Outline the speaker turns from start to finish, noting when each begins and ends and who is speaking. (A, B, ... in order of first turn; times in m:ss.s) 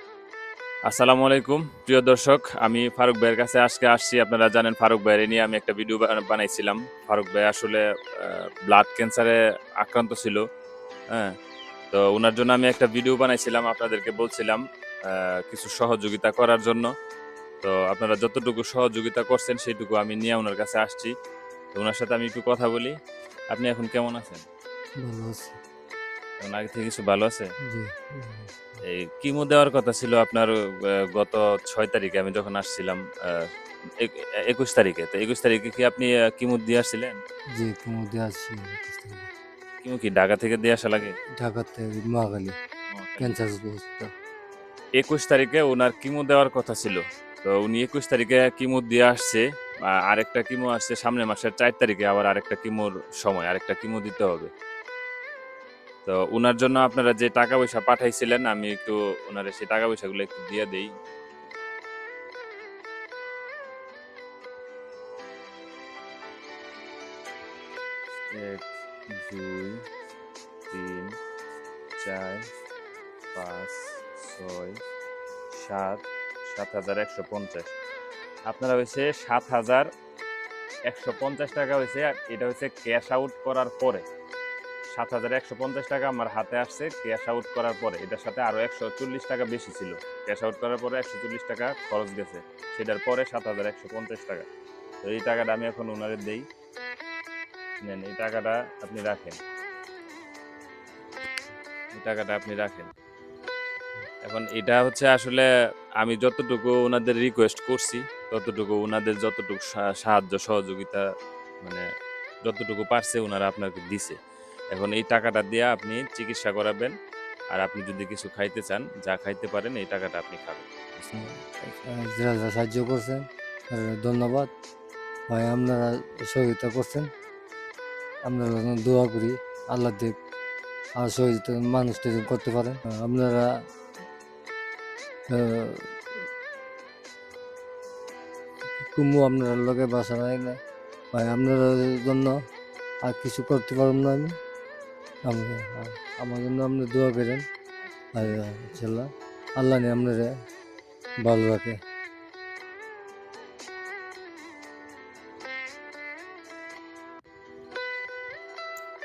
0:00.9-0:10.4 A
0:11.9-0:16.9 A
0:17.6-0:21.1 A
0:21.7-0:23.0 A
0:23.5-0:24.4 A
0:25.0-0:25.6 B
0:26.4-0:27.5 A
0:27.6-0:28.8 B
0:28.8-0:37.2 A
0:37.6-0:39.3 B
0:39.8-0:41.2 A
0:41.4-0:42.6 B
0:42.9-0:43.4 A
0:43.2-0:44.1 B
0:45.0-0:54.5 A
0:56.0-1:00.9 A
1:08.3-1:09.8 A
1:10.7-1:11.1 A
1:12.0-1:12.4 A
1:13.3-1:14.8 A
1:15.5-1:17.7 A
1:18.5-1:19.9 A
1:20.9-1:24.0 A
1:24.9-1:34.5 A
1:35.0-1:36.4 A
1:37.8-1:39.4 A
1:41.9-1:42.9 A
1:44.2-1:45.5 A
1:46.0-1:51.0 A
1:52.4-1:54.2 A
1:54.7-1:56.9 A
1:57.5-2:01.3 A
2:01.2-2:04.5 B
2:05.3-2:07.1 B
2:08.3-2:10.2 B
2:11.0-2:13.5 B
2:15.3-2:16.2 B
2:18.9-2:20.6 B
2:21.1-2:22.4 B
2:23.0-2:24.4 B
2:25.3-2:27.4 B
2:28.1-2:30.4 B
2:31.2-2:31.8 B